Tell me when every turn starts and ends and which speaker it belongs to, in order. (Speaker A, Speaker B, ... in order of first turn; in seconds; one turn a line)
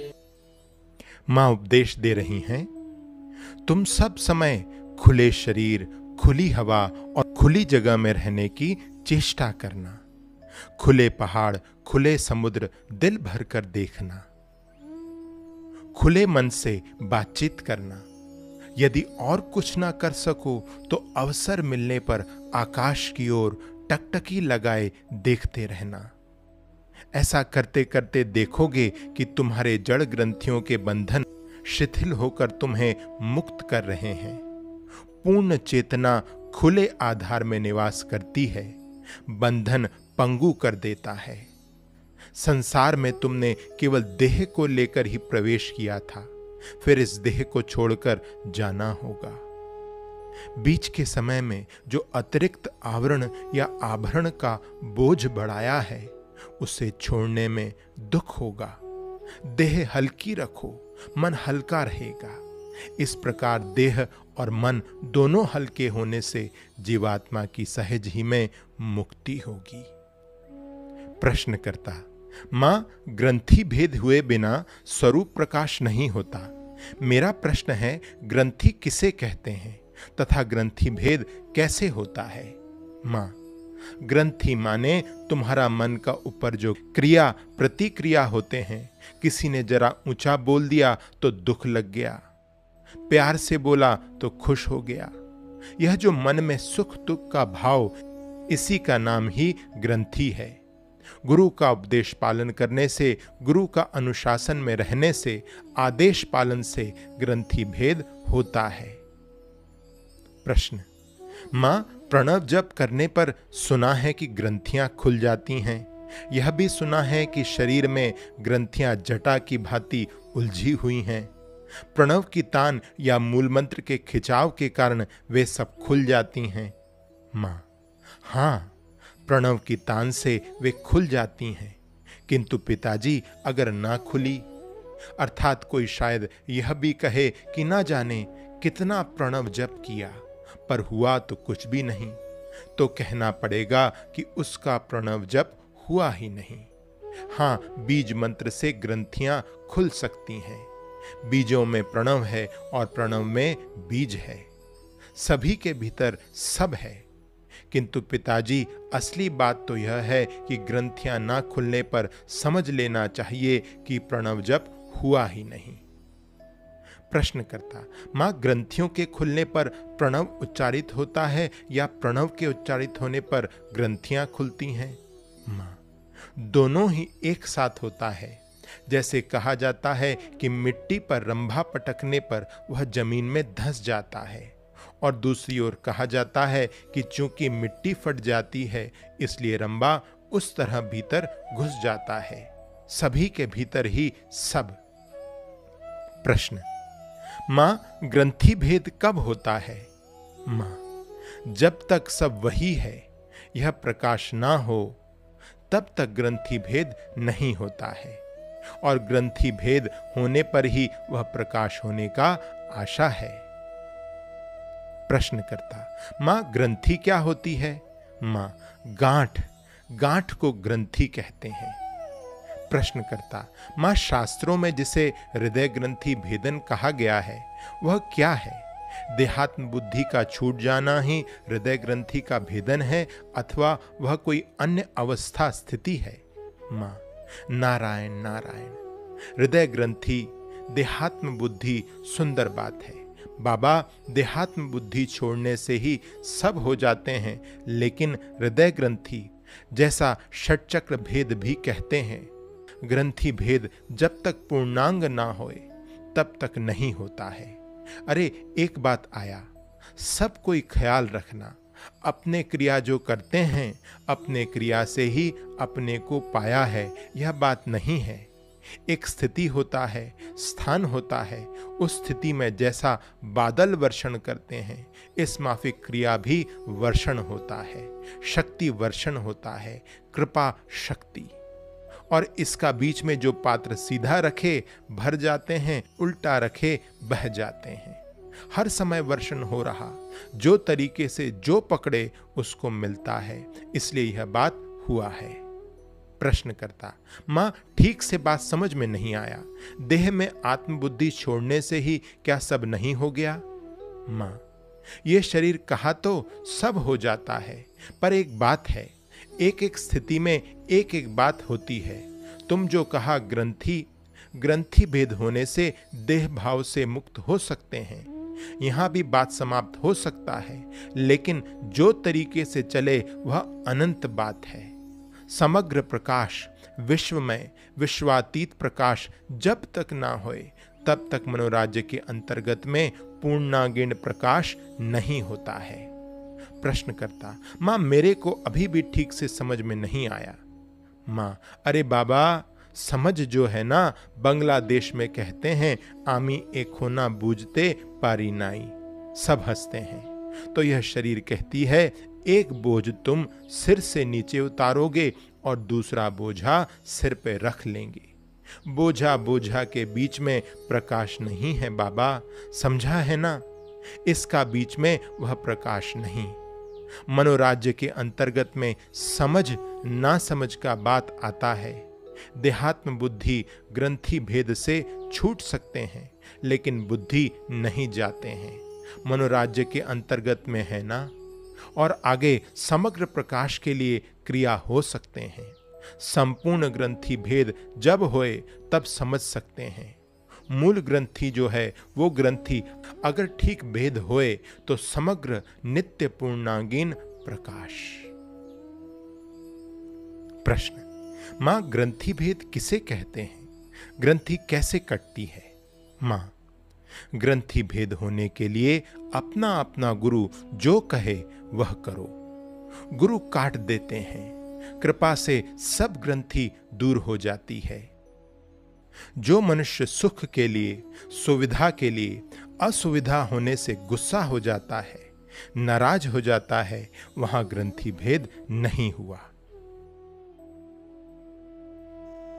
Speaker A: 1.3-2.7
Speaker A: 3.6-10.0
Speaker A: 10.7-14.3
Speaker A: 15.9-18.1
Speaker A: 18.8-26.1
Speaker A: 27.1-34.4
Speaker A: 35.2-41.5
Speaker A: 42.3-49.4
Speaker A: 50.5-58.8
Speaker A: 59.4-69.9
Speaker A: 71.2-83.3
Speaker A: 84.0-92.2
Speaker A: 93.1-95.1
Speaker A: 95.8-98.0
Speaker A: 98.5-100.6
Speaker A: 101.2-109.0
Speaker A: 110.4-110.9
Speaker A: 111.5-121.3
Speaker A: 121.9-126.8
Speaker A: 127.3-127.7
Speaker A: 128.2-128.8
Speaker A: 129.2-134.5
Speaker A: 135.2-142.2
Speaker A: 142.7-146.7
Speaker A: 147.3-150.7
Speaker A: 151.2-154.5
Speaker A: 155.2-157.1
Speaker A: 157.7-165.8
Speaker A: 167.1-194.8
Speaker A: 196.2-196.7
Speaker A: 197.4-199.9
Speaker A: 200.5-200.8
Speaker A: 201.4-205.0
Speaker A: 205.7-208.2
Speaker A: 208.8-213.5
Speaker A: 215.1-221.8
Speaker A: 222.7-238.8
Speaker A: 239.3-252.3
Speaker A: 252.8-268.3
Speaker A: 268.9-281.3
Speaker A: 282.1-295.4
Speaker A: 296.2-303.4
Speaker A: 304.1-304.4
Speaker A: 305.0-324.7
Speaker A: 325.3-335.9
Speaker A: 336.6-340.4
Speaker A: 341.1-358.1
Speaker A: 358.6-363.4
Speaker A: 364.0-366.4
Speaker A: 367.1-381.1
Speaker A: 381.8-398.1
Speaker A: 400.4-406.3
Speaker A: 407.1-412.1
Speaker A: 412.9-417.9
Speaker A: 419.2-429.3